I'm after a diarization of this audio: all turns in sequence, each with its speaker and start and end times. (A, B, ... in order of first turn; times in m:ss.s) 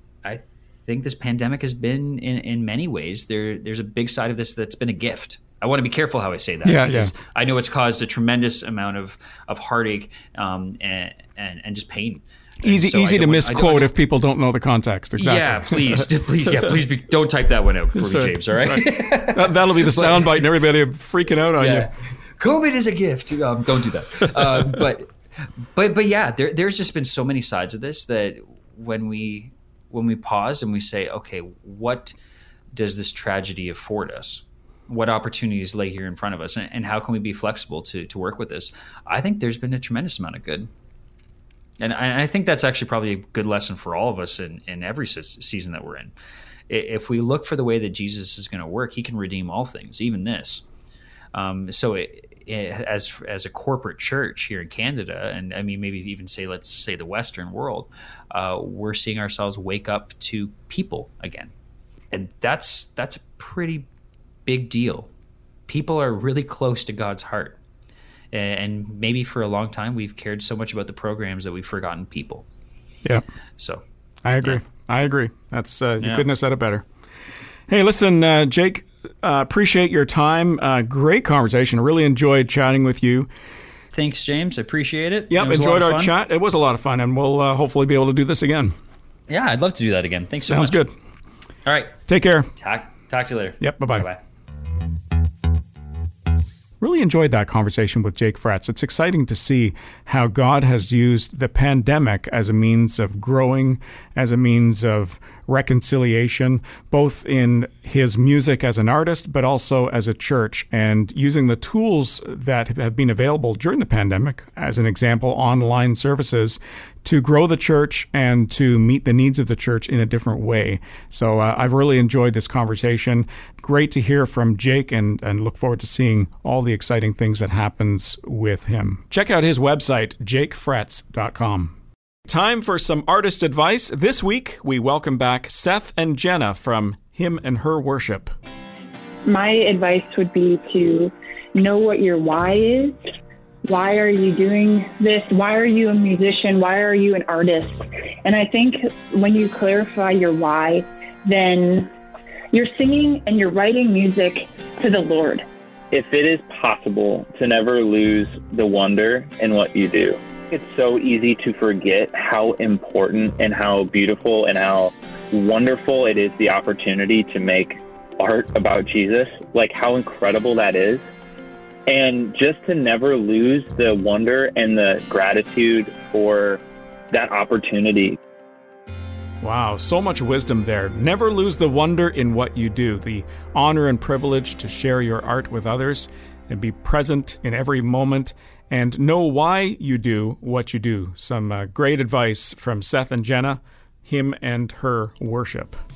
0:00.2-0:13.9 A
0:06.6-0:07.1 B
0:12.6-0:16.1 B
0:15.2-0:20.4 A
0:17.9-0:21.9 B
0:21.6-0:25.1 A
0:25.6-0:32.1 A
0:32.7-0:40.7 A
0:41.8-0:46.1 A
0:46.7-0:50.6 A
0:51.3-1:01.5 A
1:02.1-1:03.9 A
1:04.4-1:05.1 A
1:05.7-1:07.6 A
1:08.3-1:12.4 A
1:14.2-1:16.8 B
1:16.0-1:16.2 A
1:17.7-1:23.3 B
1:23.9-1:26.1 A
1:25.3-1:28.7 B
1:29.3-1:30.8 A
1:30.5-1:30.9 B
1:31.6-1:32.0 A
1:32.1-1:32.5 B
1:32.5-1:34.2 A
1:33.6-1:34.1 B
1:36.8-2:11.7 B
2:12.3-2:18.3 B
2:19.2-2:23.0 C
2:23.7-2:31.9 C
2:32.5-2:35.4 C
2:35.9-2:51.0 D
2:51.9-2:56.6 D
2:57.1-2:58.2 D
2:59.4-3:15.8 B